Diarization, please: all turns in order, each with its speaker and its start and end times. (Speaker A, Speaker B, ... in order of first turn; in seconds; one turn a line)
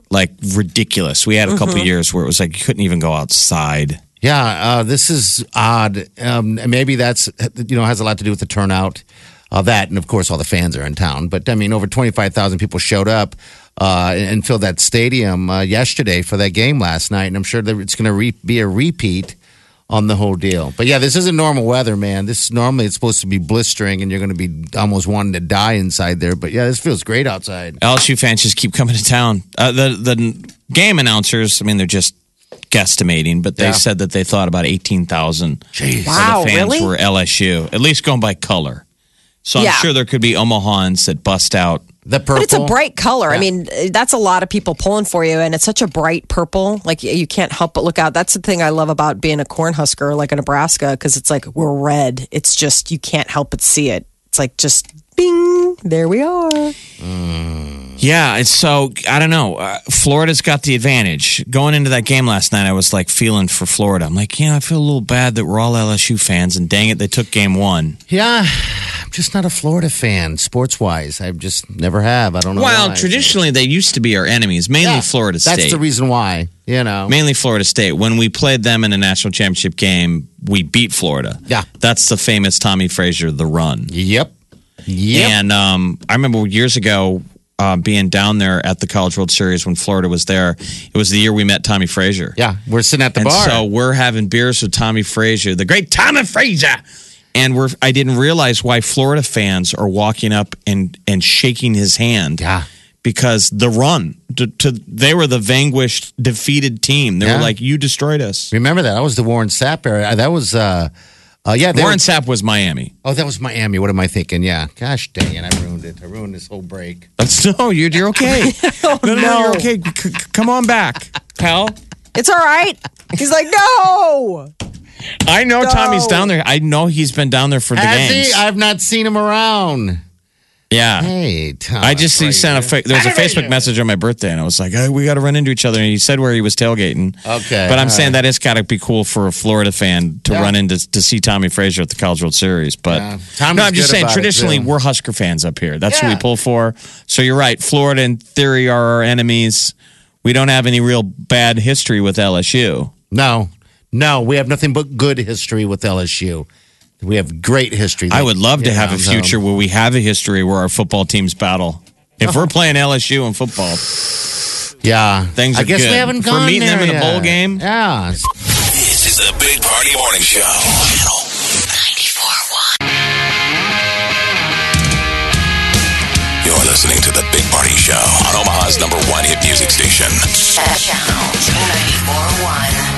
Speaker A: 0.1-4.0
Speaker B: 1.5-1.9
Speaker C: 4.2-19.4
Speaker C: 19.9-27.8
Speaker A: 27.8-32.2
Speaker A: 32.7-38.8
Speaker C: 33.6-33.8
Speaker C: 35.7-36.2
Speaker B: 36.0-36.9
Speaker A: 39.4-41.8
Speaker B: 39.6-39.9
Speaker C: 42.1-42.8
Speaker B: 42.3-56.8
Speaker C: 57.0-58.0
Speaker A: 58.0-68.0
Speaker C: 68.1-73.4
Speaker A: 72.5-75.8
Speaker C: 74.8-77.2
Speaker A: 77.1-83.9
Speaker C: 83.9-84.3
Speaker C: 84.9-85.4
Speaker A: 85.1-92.4
Speaker C: 92.4-93.7
Speaker A: 93.2-96.8
Speaker A: 97.3-102.4
Speaker C: 102.4-102.7
Speaker A: 103.0-108.5
Speaker C: 107.2-107.5
Speaker C: 108.5-110.9
Speaker C: 111.5-112.0
Speaker A: 111.7-112.9
Speaker C: 113.0-117.1
Speaker A: 117.2-121.8
Speaker B: 118.4-119.7
Speaker B: 122.2-124.5
Speaker A: 125.2-128.4
Speaker B: 125.6-126.3
Speaker C: 127.7-130.0
Speaker A: 130.7-131.1
Speaker C: 131.0-133.7
Speaker A: 131.8-152.9
Speaker C: 137.2-138.2
Speaker C: 140.3-140.5
Speaker C: 142.9-144.7
Speaker C: 145.9-146.3
Speaker C: 153.1-156.5
Speaker C: 157.0-159.4
Speaker A: 158.1-163.8
Speaker C: 162.2-162.5
Speaker C: 164.8-168.3
Speaker A: 165.3-167.6
Speaker D: 168.8-171.2
Speaker E: 171.8-172.6
Speaker D: 176.4-180.2
Speaker E: 180.6-182.9